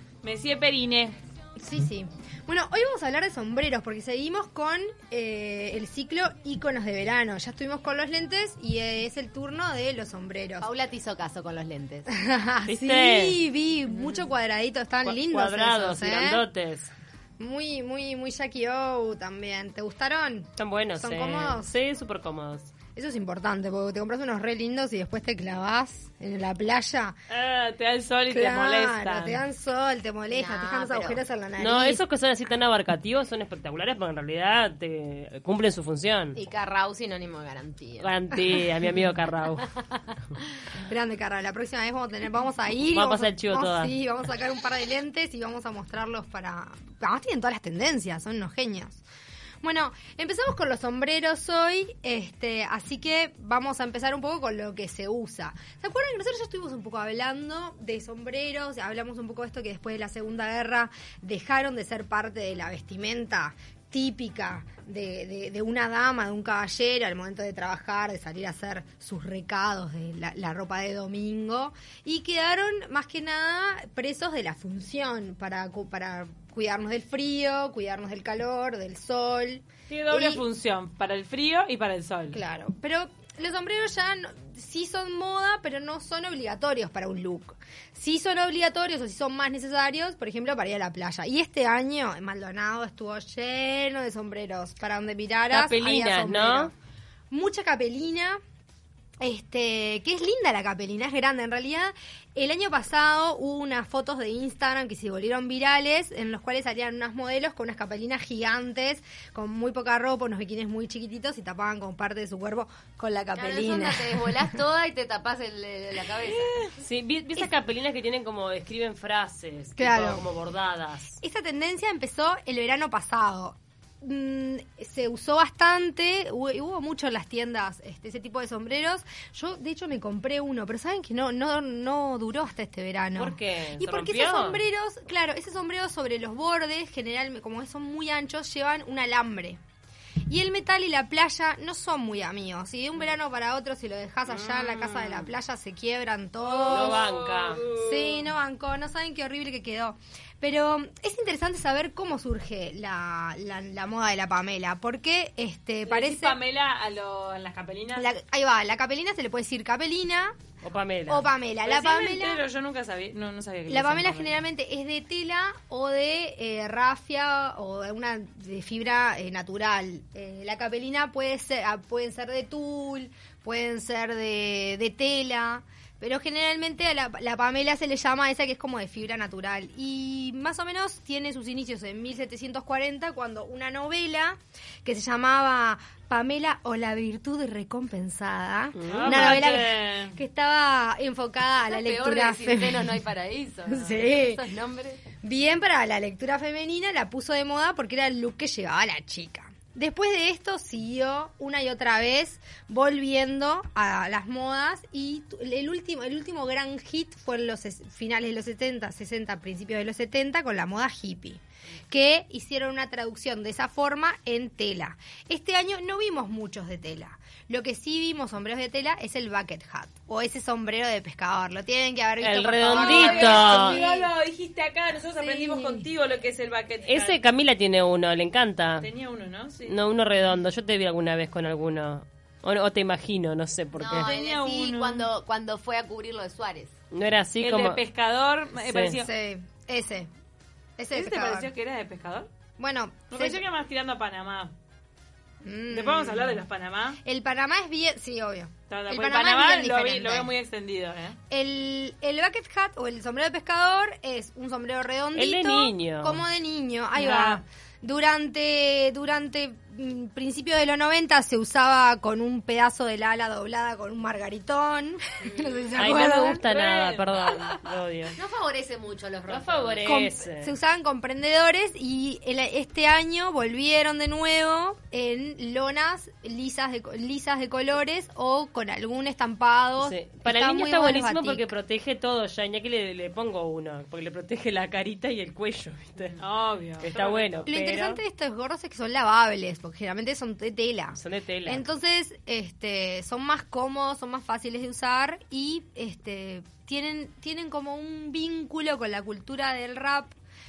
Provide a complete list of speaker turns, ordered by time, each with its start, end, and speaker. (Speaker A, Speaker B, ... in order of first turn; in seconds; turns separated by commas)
Speaker A: 0.2-1.2, Speaker B: 1.6-10.7, Speaker C: 10.6-12.1, Speaker B: 12.1-16.5, Speaker D: 12.7-13.4, Speaker C: 13.9-14.2, Speaker D: 15.1-16.9, Speaker B: 17.4-21.8, Speaker D: 20.6-22.7, Speaker B: 22.9-27.2, Speaker A: 27.3-29.4, Speaker B: 28.3-32.0, Speaker C: 30.3-31.2, Speaker D: 31.6-36.4, Speaker C: 36.4-38.6, Speaker D: 38.0-39.7, Speaker B: 40.8-49.0, Speaker D: 42.9-44.0, Speaker B: 49.6-80.4, Speaker A: 79.9-82.4, Speaker B: 82.3-96.7, Speaker D: 95.5-96.7, Speaker B: 97.3-98.4, Speaker B: 99.2-114.6, Speaker C: 113.3-116.5, Speaker A: 116.3-116.7, Speaker D: 116.8-121.2, Speaker B: 119.8-120.2, Speaker B: 121.2-139.6, Speaker D: 133.2-134.6, Speaker B: 140.3-147.1, Speaker D: 144.3-145.3, Speaker A: 146.4-148.3, Speaker D: 146.7-147.6, Speaker B: 147.7-156.4, Speaker A: 155.9-158.1, Speaker B: 157.9-160.4, Speaker D: 160.6-161.3, Speaker B: 161.1-162.4, Speaker A: 161.6-164.4, Speaker B: 163.7-193.0, Speaker D: 188.8-189.4, Speaker A: 188.9-190.2, Speaker C: 191.6-195.1, Speaker B: 193.7-194.4, Speaker B: 195.2-224.1, Speaker D: 222.2-223.8, Speaker A: 222.7-227.2, Speaker B: 225.1-225.9, Speaker D: 226.9-228.9, Speaker A: 228.8-229.8, Speaker D: 229.7-234.1, Speaker C: 233.8-236.7, Speaker A: 233.9-235.1, Speaker D: 236.9-237.8, Speaker A: 237.4-239.1, Speaker D: 238.7-239.0, Speaker B: 238.7-240.1, Speaker B: 240.8-241.5, Speaker A: 240.9-242.3, Speaker B: 242.6-243.4, Speaker A: 243.1-244.5, Speaker B: 245.4-246.4, Speaker A: 245.7-247.0, Speaker B: 247.0-250.3, Speaker A: 248.7-251.2, Speaker B: 251.3-266.4, Speaker D: 255.2-256.2, Speaker A: 257.0-257.4, Speaker C: 265.2-265.7, Speaker D: 265.8-268.1, Speaker A: 266.4-267.2, Speaker B: 267.2-267.6, Speaker C: 268.1-269.9, Speaker D: 269.3-270.5, Speaker B: 269.8-281.5, Speaker D: 279.8-286.2, Speaker A: 286.2-287.5, Speaker D: 286.8-288.0, Speaker B: 287.5-300.1, Speaker D: 290.9-291.6